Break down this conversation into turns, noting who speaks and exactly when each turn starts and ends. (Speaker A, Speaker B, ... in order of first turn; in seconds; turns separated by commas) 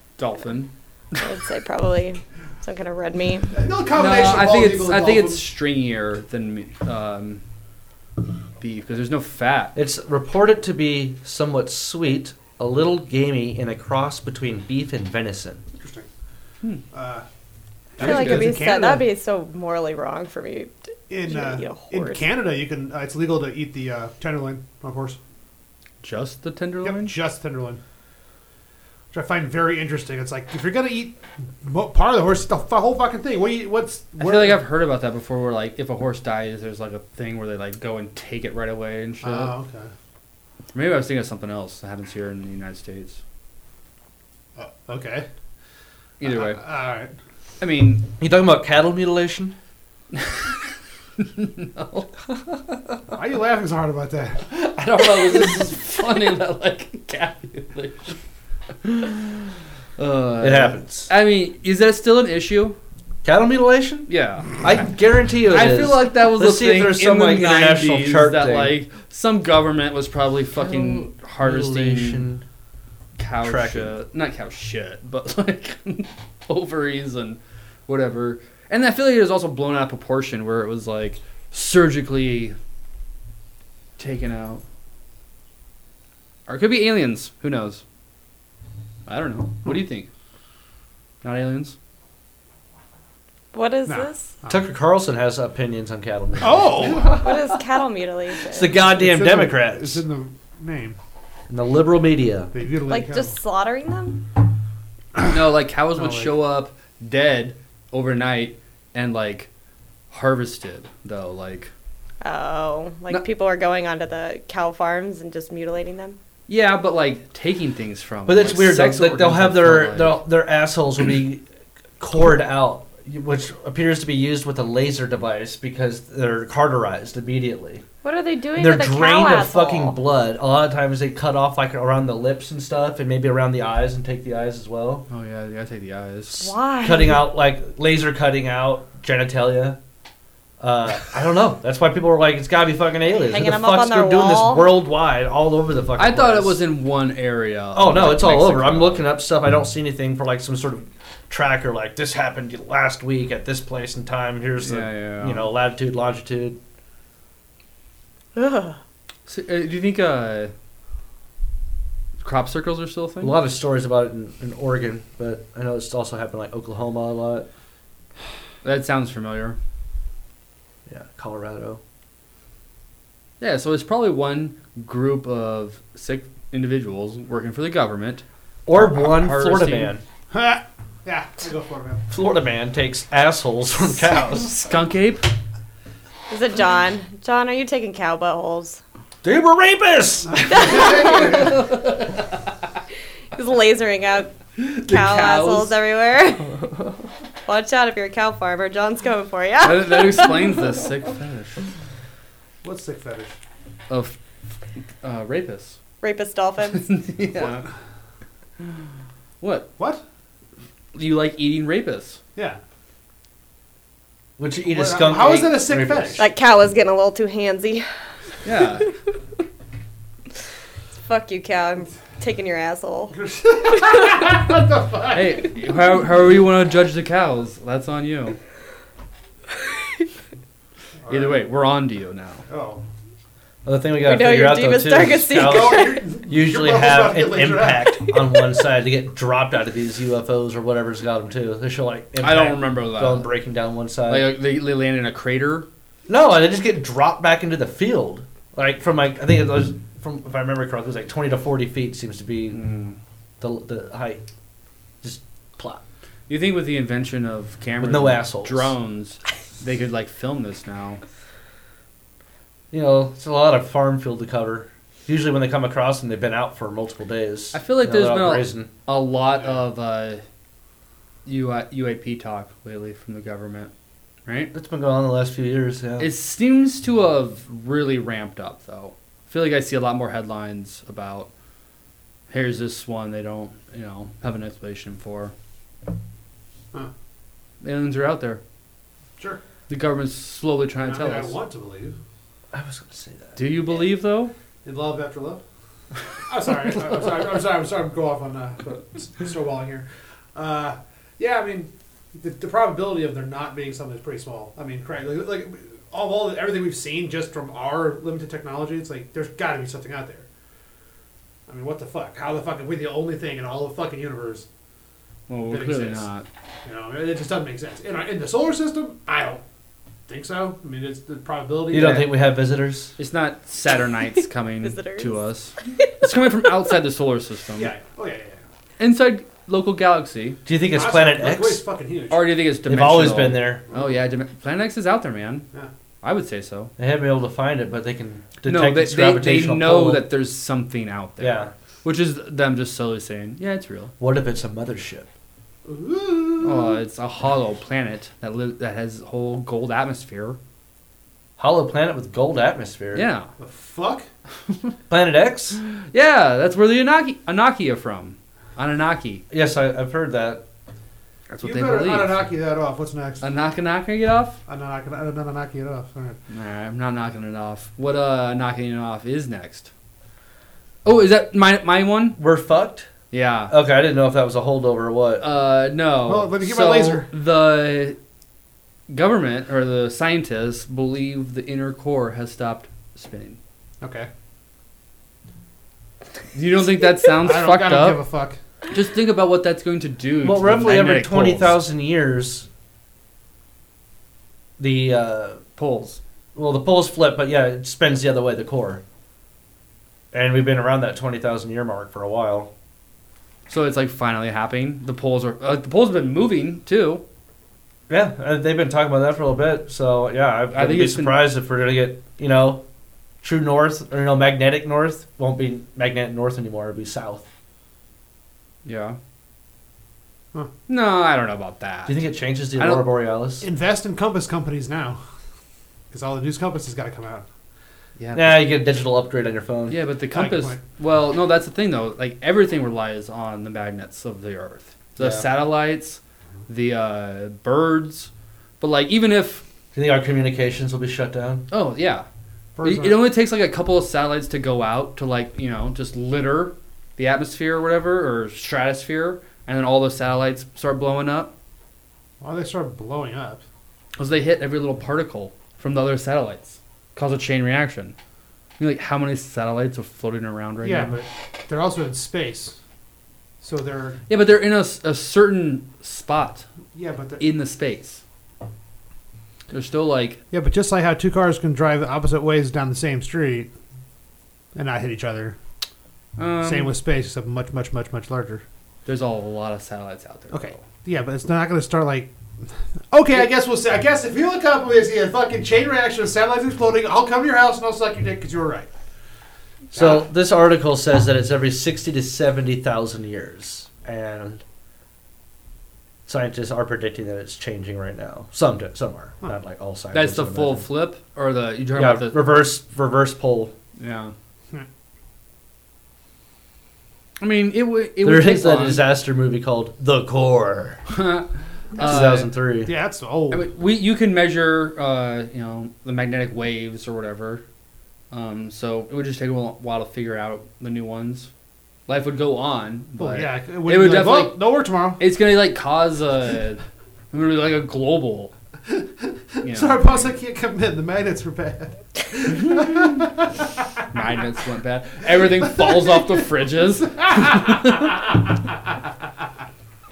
Speaker A: 0.2-1.2, Speaker B: 1.2-3.5, Speaker C: 3.5-5.4, Speaker A: 3.9-7.4, Speaker A: 8.6-9.7, Speaker D: 9.8-15.6, Speaker C: 15.8-16.1, Speaker C: 16.9-17.3, Speaker C: 18.0-19.1, Speaker A: 18.0-18.6, Speaker B: 18.0-22.2, Speaker C: 21.1-25.2, Speaker A: 26.0-27.2, Speaker C: 26.8-27.8, Speaker C: 29.1-34.6, Speaker A: 34.2-39.5, Speaker C: 39.2-39.9, Speaker A: 40.7-43.2, Speaker C: 44.6-45.3, Speaker A: 46.2-46.6, Speaker C: 46.2-47.1, Speaker A: 47.6-48.1, Speaker D: 48.2-49.6, Speaker A: 50.1-50.5, Speaker A: 51.2-52.1, Speaker C: 53.1-54.5, Speaker A: 54.5-58.2, Speaker A: 58.8-59.4, Speaker A: 60.0-62.8, Speaker D: 60.4-61.1, Speaker D: 63.2-68.8, Speaker A: 64.1-64.8, Speaker A: 65.5-72.3, Speaker D: 70.5-72.4, Speaker A: 73.2-82.6, Speaker D: 73.4-73.9, Speaker A: 84.0-84.6, Speaker A: 86.5-87.8, Speaker A: 89.1-90.1, Speaker A: 91.2-91.8, Speaker B: 93.5-94.3, Speaker C: 93.9-94.6, Speaker D: 94.5-97.2, Speaker C: 96.4-97.3, Speaker B: 97.0-98.8, Speaker D: 98.5-100.0, Speaker C: 98.8-101.0, Speaker D: 101.5-102.5, Speaker C: 102.5-103.3, Speaker B: 102.9-104.2, Speaker A: 105.2-109.5, Speaker C: 106.0-106.3, Speaker A: 110.1-111.7, Speaker B: 112.2-116.2, Speaker A: 116.5-120.2, Speaker D: 118.3-121.4, Speaker D: 122.0-127.8, Speaker B: 128.0-130.0, Speaker D: 128.6-135.1, Speaker A: 135.1-136.5, Speaker B: 136.3-137.3, Speaker D: 136.8-139.8, Speaker D: 140.6-146.6, Speaker B: 143.1-144.7, Speaker A: 146.0-149.1, Speaker D: 147.7-156.6, Speaker A: 154.6-155.5, Speaker B: 158.4-158.8, Speaker A: 159.3-160.5, Speaker A: 162.2-163.4, Speaker D: 163.2-167.5, Speaker A: 168.6-169.6, Speaker D: 170.9-171.8, Speaker A: 173.4-179.9, Speaker D: 178.7-180.0, Speaker C: 180.3-182.0, Speaker D: 182.1-184.6, Speaker A: 184.4-185.3, Speaker B: 186.3-188.8, Speaker D: 189.2-191.1, Speaker C: 190.4-191.6, Speaker B: 190.5-191.6, Speaker A: 191.2-192.2, Speaker B: 193.3-196.5, Speaker A: 194.6-195.8, Speaker B: 197.5-200.6, Speaker A: 199.6-201.7, Speaker C: 202.6-203.4, Speaker A: 203.9-204.2, Speaker A: 205.0-205.8, Speaker B: 206.0-206.9, Speaker A: 206.7-207.7, Speaker A: 209.4-209.7, Speaker C: 209.8-210.0, Speaker A: 210.9-212.2, Speaker D: 214.4-216.3, Speaker C: 214.7-216.2, Speaker B: 216.2-217.9, Speaker A: 218.4-218.9, Speaker B: 221.0-224.3, Speaker C: 223.1-225.5, Speaker A: 225.1-228.4, Speaker C: 231.0-231.5, Speaker A: 231.1-232.4, Speaker C: 232.5-232.8, Speaker D: 233.7-244.3, Speaker B: 234.0-236.1, Speaker C: 235.3-238.0, Speaker A: 242.2-243.3, Speaker A: 244.1-245.7, Speaker D: 246.1-252.6, Speaker A: 252.5-253.0, Speaker D: 253.4-254.2, Speaker D: 255.0-255.8, Speaker A: 256.3-261.0, Speaker D: 257.8-258.7, Speaker D: 262.7-268.7, Speaker A: 267.5-270.2, Speaker A: 271.3-273.7, Speaker A: 274.3-274.5, Speaker D: 274.5-276.1, Speaker A: 276.0-281.3, Speaker A: 282.3-285.3, Speaker A: 287.6-288.4, Speaker A: 289.7-291.4, Speaker C: 290.8-292.0, Speaker D: 292.5-293.5, Speaker A: 293.4-294.3, Speaker C: 294.6-295.4, Speaker C: 296.3-310.3, Speaker C: 311.5-314.5, Speaker A: 315.3-316.3, Speaker C: 315.5-316.1, Speaker C: 316.6-319.4, Speaker C: 320.1-322.1, Speaker D: 321.7-323.0, Speaker A: 323.0-327.7, Speaker B: 324.6-325.2, Speaker C: 327.6-328.4, Speaker A: 328.8-330.4, Speaker D: 330.5-331.6, Speaker C: 330.7-332.2, Speaker A: 332.1-335.5, Speaker D: 332.7-333.6, Speaker C: 333.7-334.0, Speaker A: 336.0-336.7, Speaker D: 336.8-340.1, Speaker A: 338.5-343.9, Speaker D: 341.2-341.5, Speaker D: 344.0-345.1, Speaker C: 345.6-346.8, Speaker A: 346.4-350.4, Speaker D: 351.4-353.1, Speaker A: 352.9-353.3, Speaker C: 353.4-354.1, Speaker D: 354.9-355.6, Speaker A: 355.8-359.2, Speaker D: 359.3-360.4, Speaker A: 361.3-362.2, Speaker C: 361.4-363.2, Speaker A: 363.2-364.4, Speaker C: 364.5-366.2, Speaker A: 366.3-369.7, Speaker A: 370.9-372.2, Speaker D: 372.2-372.9, Speaker A: 373.1-373.5, Speaker D: 373.5-375.3, Speaker A: 375.2-378.0, Speaker C: 376.1-377.1, Speaker A: 378.9-383.4, Speaker C: 383.8-384.1, Speaker A: 386.3-388.0, Speaker C: 387.2-388.4, Speaker A: 388.7-391.6, Speaker D: 390.2-392.5, Speaker D: 394.6-395.4, Speaker A: 395.6-396.0, Speaker D: 396.4-398.8, Speaker D: 400.1-402.5, Speaker A: 403.5-407.0, Speaker D: 407.9-412.6, Speaker A: 410.5-411.2, Speaker D: 413.2-417.2, Speaker A: 418.6-419.0, Speaker A: 420.7-422.0, Speaker D: 421.9-423.5, Speaker A: 422.6-422.9, Speaker C: 423.4-425.0, Speaker C: 425.9-427.3, Speaker A: 428.0-428.5, Speaker D: 428.1-429.8, Speaker A: 429.7-439.4, Speaker C: 430.1-430.6, Speaker D: 435.0-435.3, Speaker D: 439.7-441.5, Speaker A: 441.5-442.1, Speaker C: 442.6-443.0, Speaker A: 442.6-451.3, Speaker C: 452.2-453.4, Speaker A: 454.0-457.9, Speaker A: 458.6-460.9, Speaker C: 460.6-462.6, Speaker C: 463.4-464.0, Speaker A: 464.1-466.5, Speaker C: 466.7-467.2, Speaker A: 467.2-468.0, Speaker A: 469.5-470.2, Speaker C: 470.3-473.5, Speaker C: 474.5-475.4, Speaker A: 476.2-476.7, Speaker C: 476.4-478.4, Speaker A: 478.9-480.6, Speaker C: 480.3-488.7, Speaker D: 489.7-494.4, Speaker C: 489.7-490.1, Speaker D: 496.1-500.7, Speaker A: 499.9-502.4, Speaker D: 501.8-503.5, Speaker A: 503.8-504.1, Speaker A: 507.2-508.8, Speaker D: 508.0-510.8, Speaker A: 510.9-512.3, Speaker D: 511.8-512.7, Speaker C: 512.6-513.5, Speaker A: 513.3-517.4, Speaker A: 518.1-521.3, Speaker A: 521.9-524.4, Speaker C: 523.0-525.0, Speaker A: 525.0-528.3, Speaker C: 528.7-533.5, Speaker A: 529.4-530.0, Speaker A: 532.5-532.9, Speaker A: 533.9-537.9, Speaker C: 535.4-536.1, Speaker C: 537.0-538.0